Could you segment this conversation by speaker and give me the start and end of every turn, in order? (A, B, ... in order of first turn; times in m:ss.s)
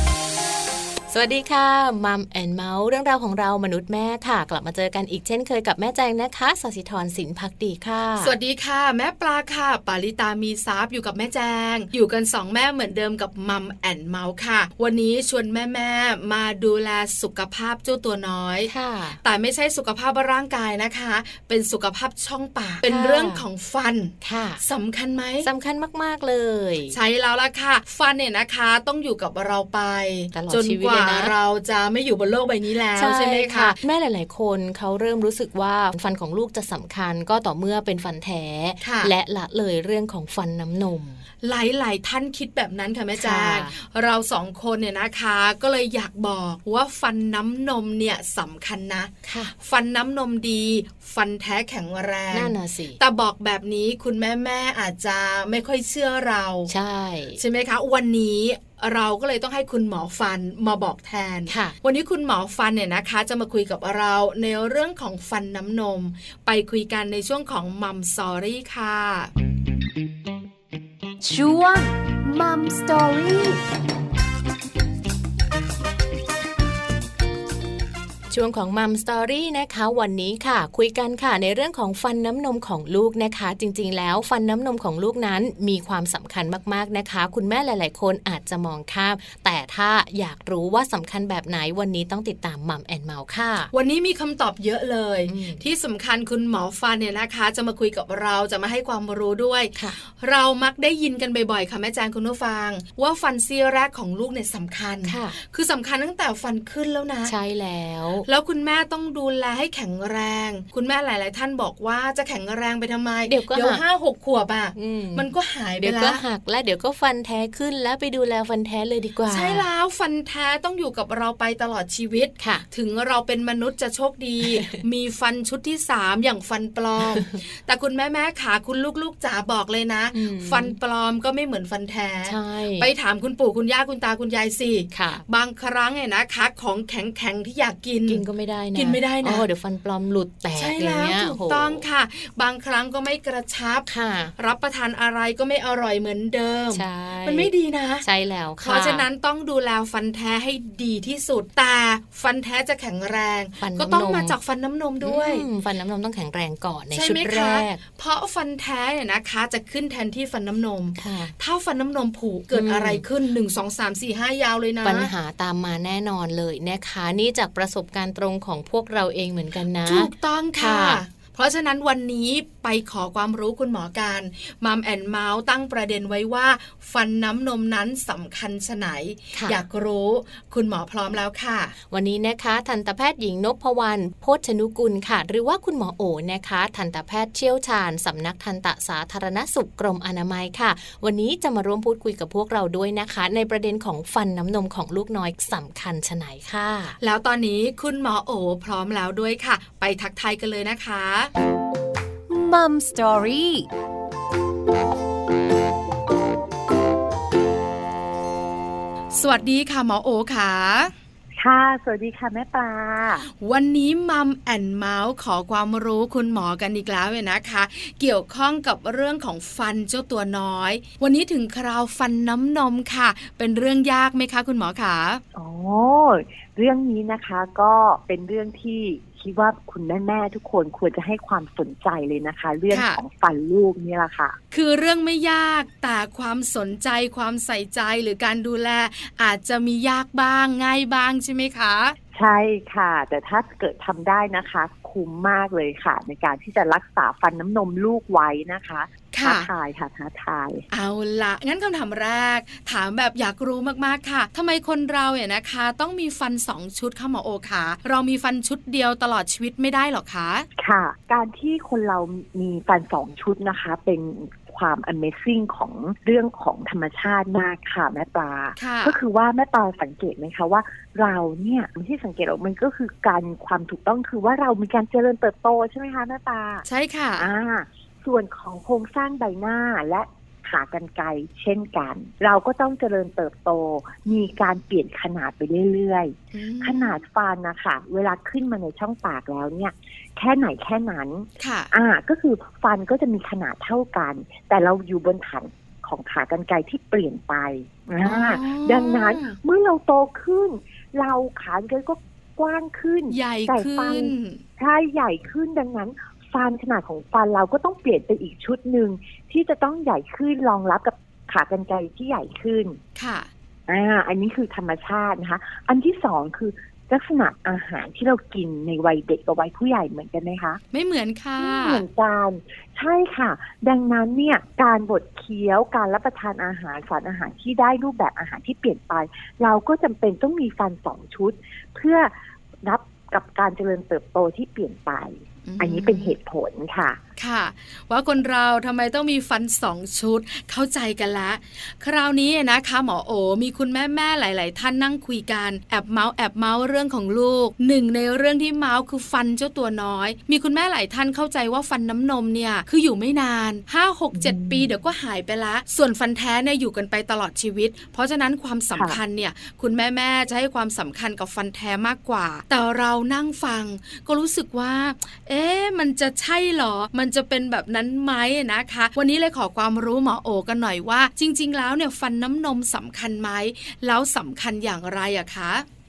0:01.1-0:08.3 A
0:08.2-0:18.7 B
0:18.7-0:19.2 A
0:19.2-0:25.5 B
0:22.8-0:23.4 A
0:24.2-0:24.6 A
0:25.4-0:27.0 A
0:26.9-0:33.7 B
0:30.3-0:31.3 A
0:33.0-0:41.2 A
0:38.8-0:39.1 B
0:41.4-0:56.7 B
0:43.2-0:43.7 A
0:49.2-0:49.5 A
0:52.3-0:53.0 A
0:56.7-0:57.4 A
0:57.4-1:09.3 B
1:01.5-1:01.8 A
1:11.2-1:13.6 C
1:18.3-1:33.7 A
1:33.7-1:47.3 B
1:35.3-1:35.6 A
1:45.0-1:45.4 A
1:47.2-1:48.2 A
1:48.2-1:56.2 B
1:53.3-1:53.8 A
1:54.7-1:55.3 A
1:55.8-1:59.6 A
1:59.3-2:19.5 B
2:02.4-2:02.6 A
2:04.5-2:04.8 A
2:10.1-2:10.8 A
2:12.2-2:12.9 A
2:14.9-2:15.2 A
2:18.1-2:21.8 A
2:20.5-2:28.0 B
2:23.8-2:24.3 A
2:26.7-2:29.0 A
2:28.6-2:35.5 B
2:33.6-2:34.4 A
2:35.0-2:37.8 A
2:36.9-2:45.1 B
2:41.0-2:41.3 A
2:42.5-2:43.0 A
2:44.8-2:51.0 A
2:49.8-3:01.8 B
2:59.3-2:59.6 A
3:01.9-3:17.0 A
3:17.0-3:21.3 B
3:22.3-3:23.7 C
3:29.1-3:30.9 B
3:31.4-3:33.3 D
3:33.3-3:45.2 B
3:45.3-3:54.4 D
3:52.7-3:53.0 B
3:54.5-4:02.0 B
4:02.1-4:10.6 D
4:09.1-4:09.5 B
4:10.7-4:20.5 B
4:20.6-4:36.6 D
4:28.6-4:29.0 B
4:36.6-4:37.3 B
4:37.2-5:12.8 D
4:46.3-4:47.0 B
4:51.4-4:51.7 B
4:58.0-4:59.4 B
5:03.1-5:04.4 B
5:13.0-5:13.3 B
5:13.7-5:20.6 D
5:20.7-5:21.8 B
5:21.4-5:37.0 D
5:35.5-5:36.2 B
5:37.2-6:15.6 B
5:54.1-5:54.7 D
5:58.7-5:59.0 D